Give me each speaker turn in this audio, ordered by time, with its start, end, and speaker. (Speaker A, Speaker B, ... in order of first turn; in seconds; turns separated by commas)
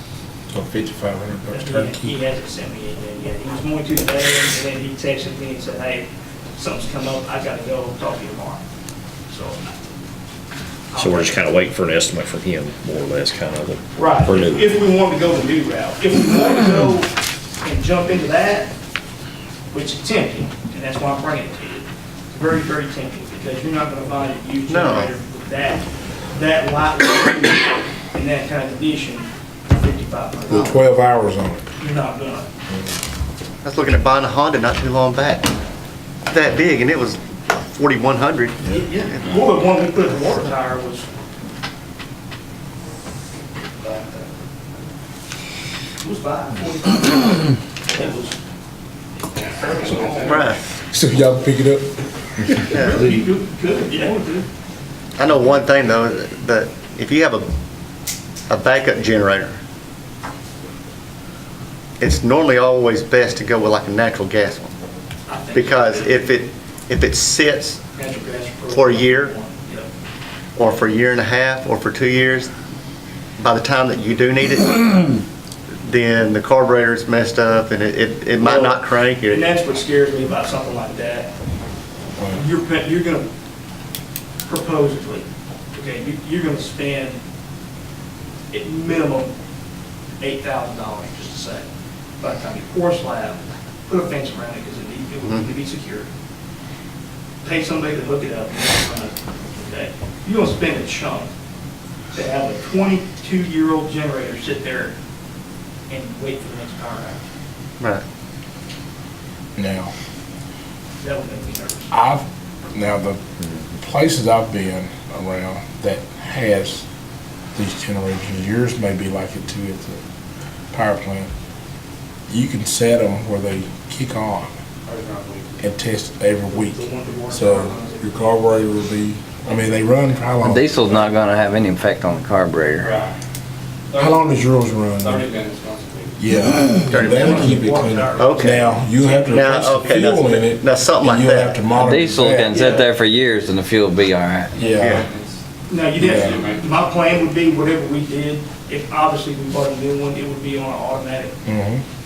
Speaker A: 0.5-2.1, Speaker B: 1.5-8.6, Speaker B: 9.3-9.6, Speaker B: 10.9-11.4, Speaker C: 10.9-14.7, Speaker B: 14.0-18.7, Speaker B: 19.7-30.8, Speaker D: 24.7-25.1, Speaker A: 30.5-31.7, Speaker B: 31.8-32.5, Speaker D: 33.6-35.5, Speaker D: 36.3-39.4, Speaker B: 38.6-41.1, Speaker B: 46.0-48.4, Speaker E: 49.5-50.5, Speaker B: 49.6-50.5, Speaker D: 50.3-50.6, Speaker A: 50.9-52.7, Speaker D: 52.7-53.1, Speaker B: 52.7-54.5, Speaker D: 55.2-57.5, Speaker D: 58.5-59.6, Speaker D: 62.0-64.7, Speaker B: 65.3-66.3, Speaker D: 65.5-67.8, Speaker B: 68.0-69.9, Speaker D: 68.7-69.3, Speaker D: 70.6-72.5, Speaker D: 73.4-75.2, Speaker D: 75.8-79.5, Speaker B: 78.4-81.3, Speaker A: 82.2-82.4, Speaker B: 82.3-83.3, Speaker B: 84.5-87.2, Speaker B: 88.5-89.3, Speaker B: 90.2-91.7, Speaker B: 92.2-96.1, Speaker B: 97.4-101.3, Speaker B: 102.1-105.0, Speaker B: 105.9-107.2, Speaker A: 109.6-109.9, Speaker B: 111.0-111.9, Speaker A: 111.9-116.9, Speaker A: 117.5-120.0, Speaker A: 120.7-121.3, Speaker A: 122.3-124.5, Speaker E: 124.9-125.6, Speaker A: 125.6-130.7, Speaker B: 126.5-128.4, Speaker F: 130.4-132.9, Speaker E: 130.8-131.2, Speaker E: 132.8-133.2, Speaker E: 133.9-134.4, Speaker A: 134.0-135.2, Speaker E: 135.0-136.2, Speaker A: 136.2-142.6, Speaker D: 136.9-137.5, Speaker B: 136.9-139.5, Speaker D: 138.2-138.6, Speaker D: 139.3-141.6, Speaker F: 141.7-144.5, Speaker B: 142.5-142.9, Speaker E: 144.6-146.7, Speaker A: 144.6-145.1, Speaker D: 144.8-145.1, Speaker B: 145.7-151.4, Speaker A: 146.0-146.4, Speaker A: 151.4-151.8